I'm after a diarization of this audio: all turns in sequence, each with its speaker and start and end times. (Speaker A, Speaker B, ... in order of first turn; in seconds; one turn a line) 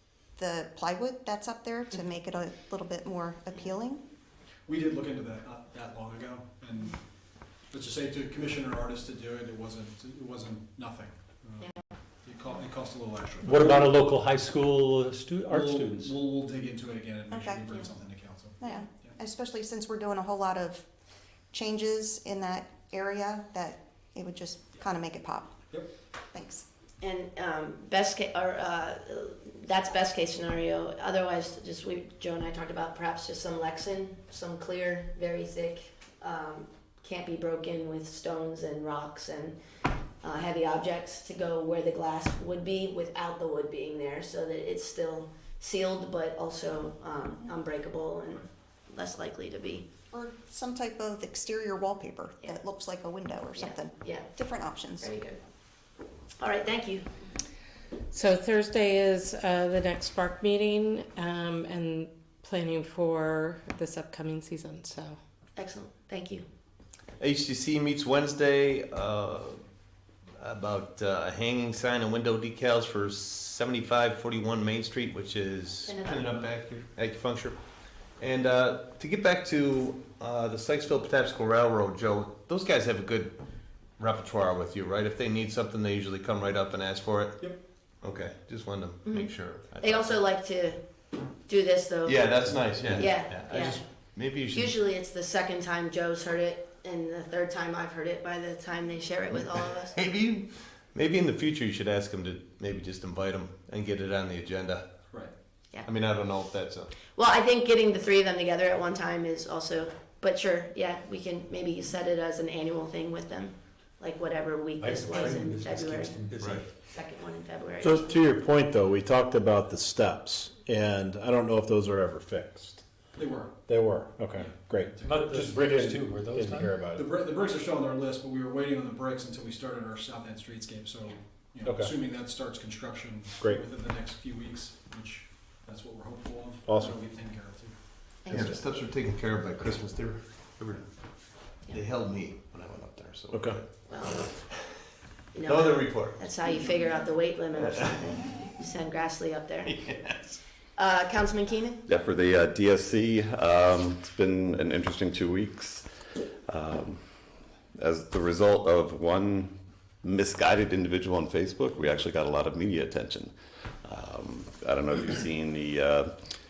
Speaker A: 0.4-4.0
Speaker B: 4.7-7.0
Speaker B: 7.7-11.7
Speaker B: 12.2-14.0
Speaker C: 13.4-16.1
Speaker B: 15.5-19.1
Speaker A: 17.3-17.6
Speaker A: 18.6-20.9
Speaker A: 21.5-25.6
Speaker A: 26.3-26.6
Speaker D: 27.0-39.6
Speaker D: 40.2-49.9
Speaker A: 50.1-55.1
Speaker D: 53.5-54.3
Speaker D: 55.0-55.4
Speaker D: 56.4-57.1
Speaker E: 58.1-65.2
Speaker D: 65.6-66.5
Speaker F: 67.2-69.6
Speaker F: 70.4-77.6
Speaker D: 75.9-76.5
Speaker F: 78.2-83.4
Speaker F: 84.0-87.4
Speaker F: 88.0-90.2
Speaker D: 89.1-90.8
Speaker D: 91.4-100.0
Speaker F: 92.0-94.8
Speaker F: 99.3-104.9
Speaker F: 105.8-106.9
Speaker D: 107.1-118.1
Speaker C: 114.8-116.6
Speaker F: 116.4-116.7
Speaker G: 117.8-122.8
Speaker B: 123.1-123.7
Speaker G: 123.7-127.0
Speaker B: 124.3-126.2
Speaker C: 125.0-126.9
Speaker B: 126.8-137.8
Speaker G: 131.6-131.9
Speaker G: 136.7-136.9
Speaker D: 138.3-138.6
Speaker F: 138.3-140.8
Speaker F: 141.7-143.7
Speaker G: 143.3-143.6
Speaker D: 143.9-144.3
Speaker D: 145.3-149.7
Speaker F: 145.5-146.3
Speaker F: 149.7-150.4
Speaker D: 150.8-151.8
Speaker H: 151.9-155.9
Speaker H: 156.5-157.0
Speaker H: 157.8-163.3
Speaker H: 163.8-166.1